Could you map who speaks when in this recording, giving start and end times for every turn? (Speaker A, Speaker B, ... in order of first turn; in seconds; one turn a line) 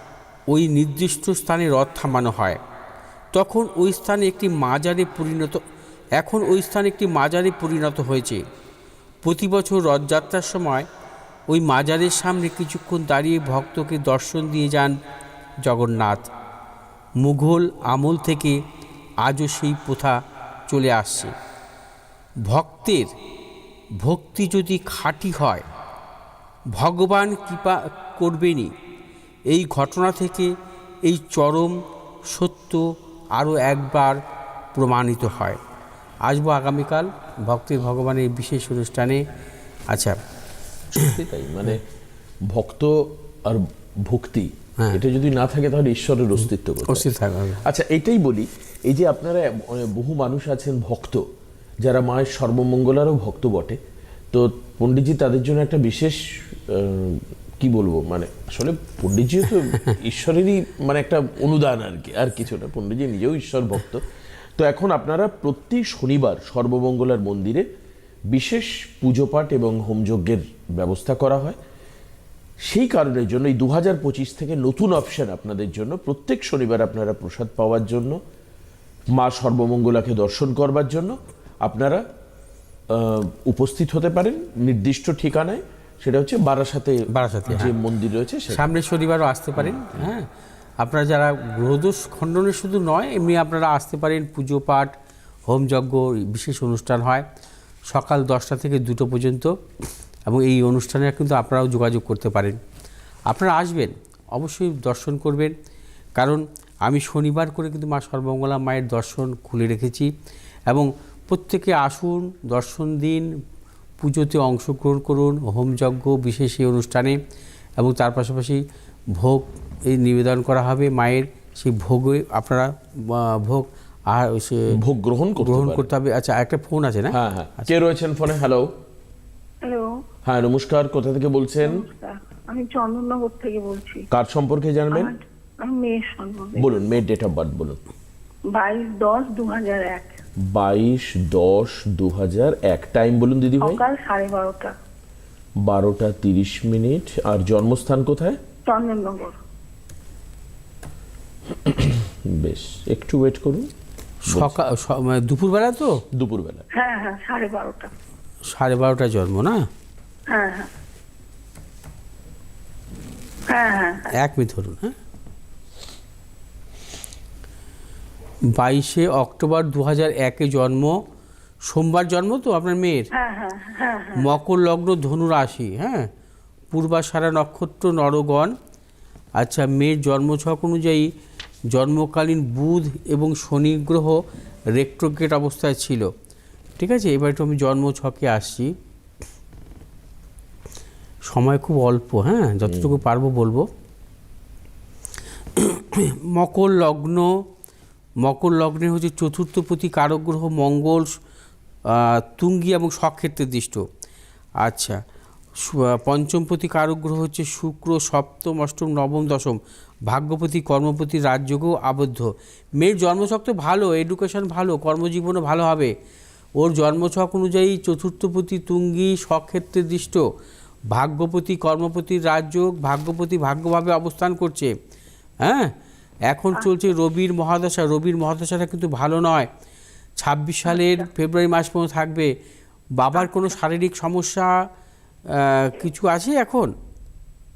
Speaker A: 0.5-2.6
Speaker A: 3.3-5.6
Speaker A: 6.2-8.4
Speaker A: 9.2-10.9
Speaker A: 11.5-15.0
Speaker A: 15.6-16.3
Speaker A: 17.2-18.6
Speaker A: 19.2-21.3
Speaker A: 22.5-23.1
Speaker A: 24.0-25.6
Speaker A: 26.8-28.7
Speaker A: 29.5-30.5
Speaker A: 31.1-34.2
Speaker A: 34.7-35.6
Speaker A: 36.3-39.2
Speaker A: 39.9-40.2
Speaker B: 41.0-41.8
Speaker B: 42.5-47.1
Speaker A: 46.4-47.6
Speaker B: 47.6-51.2
Speaker B: 51.8-53.8
Speaker B: 54.3-64.0
Speaker B: 64.6-67.7
Speaker B: 68.3-71.6
Speaker B: 72.7-78.2
Speaker B: 79.2-82.0
Speaker B: 82.9-88.6
Speaker A: 87.1-87.7
Speaker A: 88.5-90.3
Speaker B: 89.6-90.1
Speaker A: 90.8-94.9
Speaker A: 95.5-97.3
Speaker A: 97.9-99.5
Speaker A: 100.3-102.6
Speaker A: 103.3-105.5
Speaker A: 106.2-110.1
Speaker A: 110.7-113.3
Speaker A: 114.0-117.2
Speaker A: 117.8-118.6
Speaker A: 119.2-124.8
Speaker B: 124.7-125.9
Speaker A: 125.4-127.7
Speaker B: 127.1-128.7
Speaker C: 129.6-129.9
Speaker B: 130.2-131.8
Speaker C: 131.6-134.1
Speaker B: 134.1-135.1
Speaker C: 134.9-136.8
Speaker B: 136.6-137.8
Speaker C: 138.5-140.1
Speaker B: 140.4-143.8
Speaker C: 143.6-144.8
Speaker B: 145.6-148.4
Speaker C: 148.7-149.4
Speaker B: 151.5-153.7
Speaker A: 154.3-156.0
Speaker B: 154.3-154.6
Speaker B: 156.1-156.7
Speaker C: 156.8-157.9
Speaker A: 158.5-159.7
Speaker C: 160.3-160.7
Speaker C: 163.5-164.1
Speaker A: 164.2-164.9
Speaker A: 168.6-171.0
Speaker A: 171.7-173.1
Speaker C: 173.1-174.3
Speaker A: 174.2-176.1
Speaker A: 176.7-178.5
Speaker A: 179.4-181.1
Speaker A: 181.7-184.2
Speaker A: 184.7-186.1
Speaker A: 186.8-188.7
Speaker A: 191.3-193.7
Speaker B: 192.6-193.0
Speaker A: 195.6-197.4
Speaker A: 198.2-201.1
Speaker A: 201.9-203.8
Speaker A: 204.6-205.0
Speaker A: 205.6-209.6
Speaker A: 210.1-215.9
Speaker A: 216.6-220.2
Speaker A: 220.9-224.7
Speaker A: 225.4-225.7
Speaker A: 226.3-229.5
Speaker A: 230.2-232.3
Speaker C: 230.7-231.1
Speaker A: 233.0-234.5
Speaker C: 233.2-233.6
Speaker A: 235.3-236.7